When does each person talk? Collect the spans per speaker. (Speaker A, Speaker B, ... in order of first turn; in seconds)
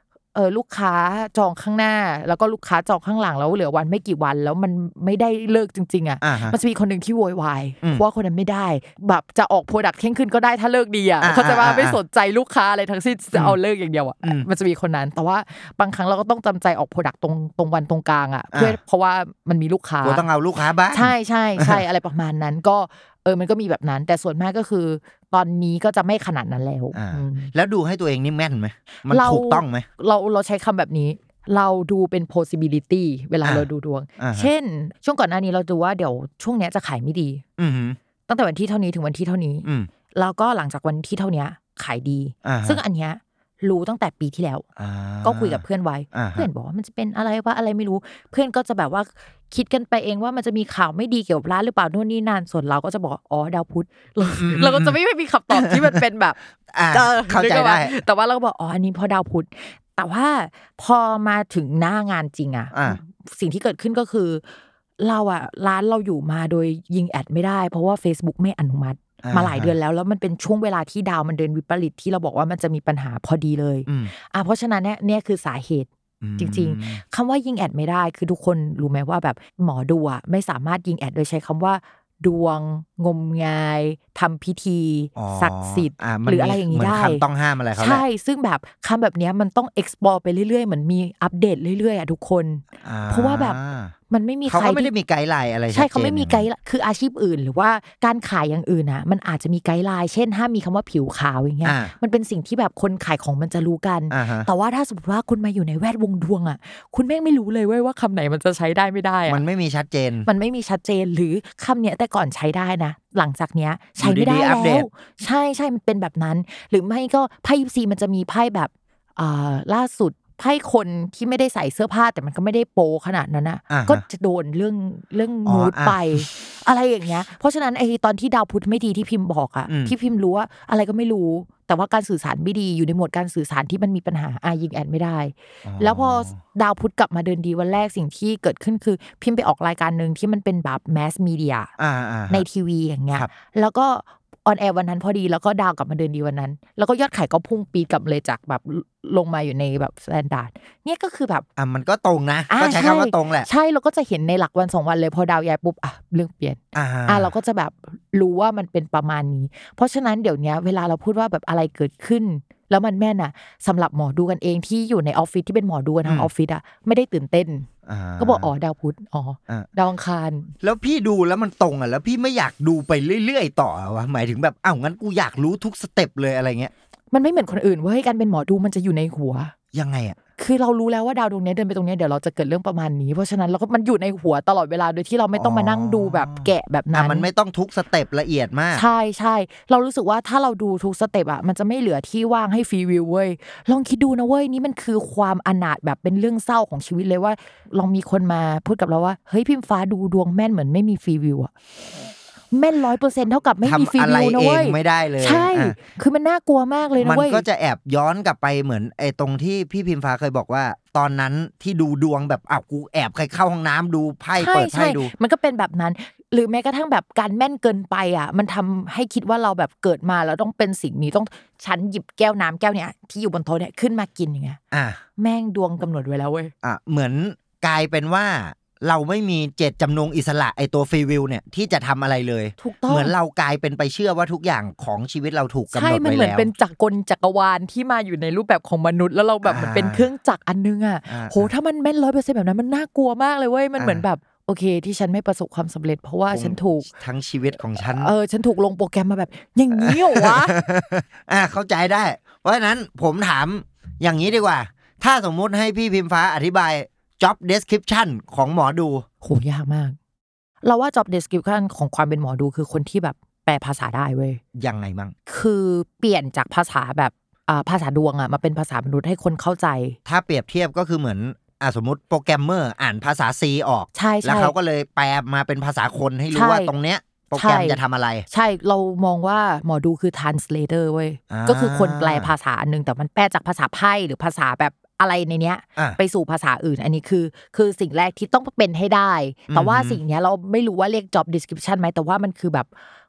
Speaker A: 0.3-20.3, 20.9-27.5, 29.1-37.4, 38.3-44.7, 45.2-56.4, 56.9-64.4, 65.0-87.2, 87.8-93.6, 94.1-94.9, 95.7-109.4, 110.3-141.7, 142.3-151.5, 152.5-167.7, 168.2-170.5, 177.1-179.6, 180.4-187.3, 188.7-201.5, 202.5-207.4, 214.4-224.6, 225.2-226.5, 232.6-233.1, 235.7-246.9, 247.9-250.6, 259.2-260.0, 260.6-264.4, 265.3-270.0, 273.9-274.5, 276.3-276.7, 277.4-277.8, 278.3-292.7
Speaker B: 6.2-6.6, 11.2-12.0, 18.5-18.8, 20.0-21.8, 26.9-29.9, 34.2-34.5, 37.6-38.0, 39.6-39.9, 42.4-42.8, 44.8-46.5, 54.4-55.0, 55.5-56.0, 56.7-58.0, 62.7-63.0, 69.2-69.7, 73.9-74.1, 76.2-77.0, 85.2-88.0, 92.8-93.9, 94.5-96.5, 101.6-101.9, 104.1-104.5, 109.3-110.3, 114.0-114.9, 123.7-124.0, 125.5-126.3, 129.7-129.9, 135.7-136.4, 141.8-142.4, 151.6-153.5, 156.7-157.3, 167.9-168.5, 170.6-176.7, 179.7-180.2, 185.3-188.8, 203.6-205.8, 207.0-215.1, 224.7-225.0, 226.6-236.5, 239.4-240.1, 241.1-241.5, 243.8-244.0, 246.3-248.1, 249.8-259.1, 264.6-265.1, 270.1-278.3, 281.3-282.3, 289.5-290.0